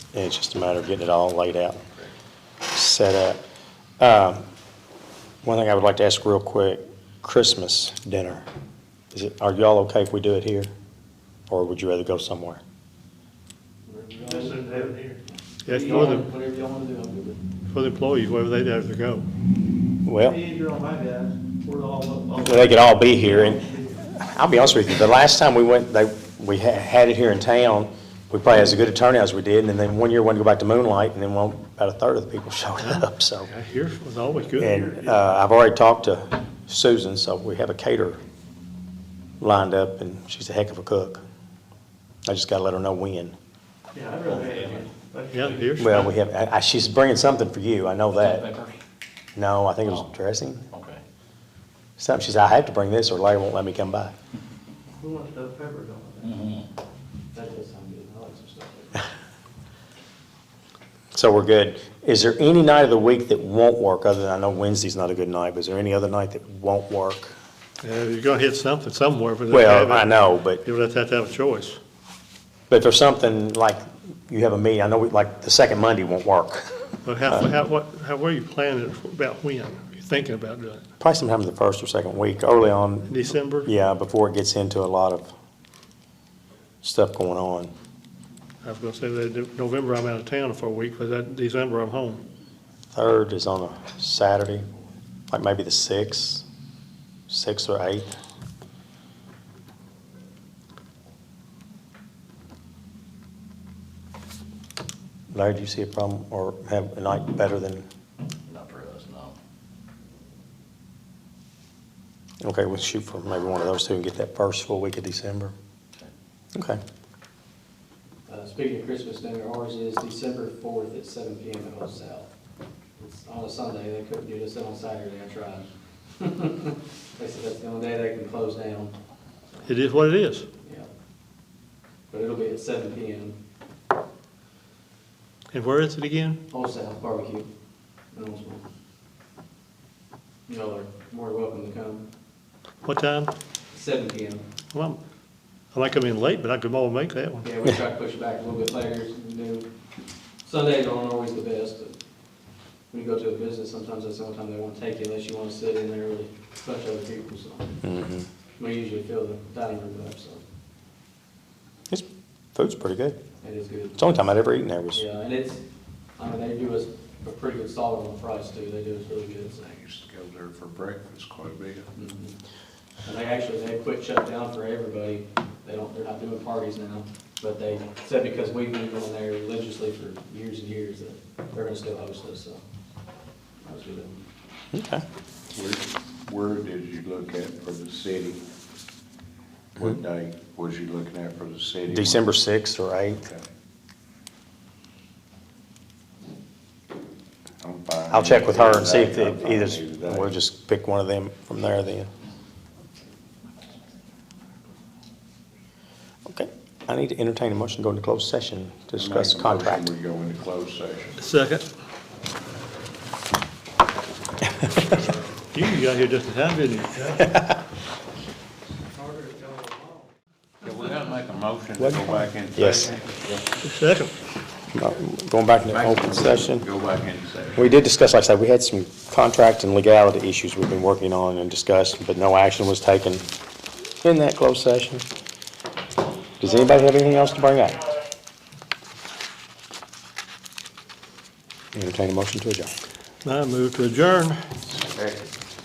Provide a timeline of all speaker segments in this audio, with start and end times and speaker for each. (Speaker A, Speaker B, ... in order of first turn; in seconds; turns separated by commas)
Speaker A: 0.1-1.8, Speaker A: 2.7-3.4, Speaker A: 4.0-4.4, Speaker A: 5.4-8.4, Speaker A: 9.1-10.7, Speaker A: 11.5-12.6, Speaker B: 13.8-17.4, Speaker C: 14.2-15.1, Speaker D: 15.6-16.3, Speaker D: 17.7-19.3, Speaker A: 20.0-20.4, Speaker C: 20.2-23.9, Speaker A: 22.4-33.5, Speaker D: 32.9-34.9, Speaker A: 34.5-38.2, Speaker A: 39.4-41.2, Speaker A: 42.2-43.3, Speaker C: 43.9-45.5, Speaker E: 44.1-45.7, Speaker D: 45.3-46.1, Speaker A: 45.8-48.4, Speaker E: 48.1-48.8, Speaker A: 49.3-50.6, Speaker E: 50.7-51.0, Speaker A: 52.0-54.1, Speaker C: 55.0-56.3, Speaker E: 56.2-56.7, Speaker B: 57.3-59.0, Speaker A: 61.1-67.3, Speaker D: 67.8-71.8, Speaker A: 69.5-70.6, Speaker A: 72.7-77.5, Speaker D: 77.0-80.8, Speaker A: 81.0-85.3, Speaker D: 83.1-83.7, Speaker A: 86.8-87.7, Speaker D: 88.6-92.2, Speaker A: 92.9-94.7, Speaker A: 95.3-96.4, Speaker A: 97.3-98.1, Speaker A: 105.3-107.8, Speaker E: 108.5-109.3, Speaker A: 112.4-115.5, Speaker A: 116.5-116.8, Speaker B: 118.3-122.3, Speaker B: 123.0-125.6, Speaker B: 126.2-128.9, Speaker D: 129.7-130.5, Speaker B: 130.6-130.9, Speaker B: 132.1-133.4, Speaker D: 135.5-136.4, Speaker B: 136.5-137.5, Speaker B: 138.1-138.6, Speaker B: 140.5-142.1, Speaker D: 142.8-143.3, Speaker B: 143.7-144.4, Speaker D: 144.7-145.0, Speaker D: 145.7-147.5, Speaker B: 147.4-149.7, Speaker B: 150.4-151.9, Speaker B: 152.9-157.8, Speaker A: 157.8-158.2, Speaker B: 158.6-160.4, Speaker A: 161.9-163.2, Speaker B: 163.4-164.2, Speaker A: 164.0-165.0, Speaker B: 164.9-165.6, Speaker B: 166.2-169.7, Speaker F: 169.6-171.9, Speaker B: 171.9-172.3, Speaker B: 173.0-182.6, Speaker B: 183.6-184.2, Speaker A: 184.7-185.0, Speaker F: 185.5-188.4, Speaker F: 189.7-192.3, Speaker A: 191.9-193.2, Speaker F: 197.6-200.4, Speaker A: 198.1-202.1, Speaker A: 206.3-209.9, Speaker F: 208.9-211.2, Speaker D: 211.2-211.7, Speaker D: 215.5-217.3, Speaker C: 219.2-219.9, Speaker F: 220.6-223.1, Speaker A: 221.8-222.9, Speaker D: 223.6-224.1, Speaker A: 224.7-226.6, Speaker F: 225.7-227.7, Speaker A: 227.6-233.3, Speaker A: 234.0-235.0, Speaker A: 236.4-238.0, Speaker A: 241.7-242.8, Speaker D: 243.2-244.4, Speaker F: 244.7-245.3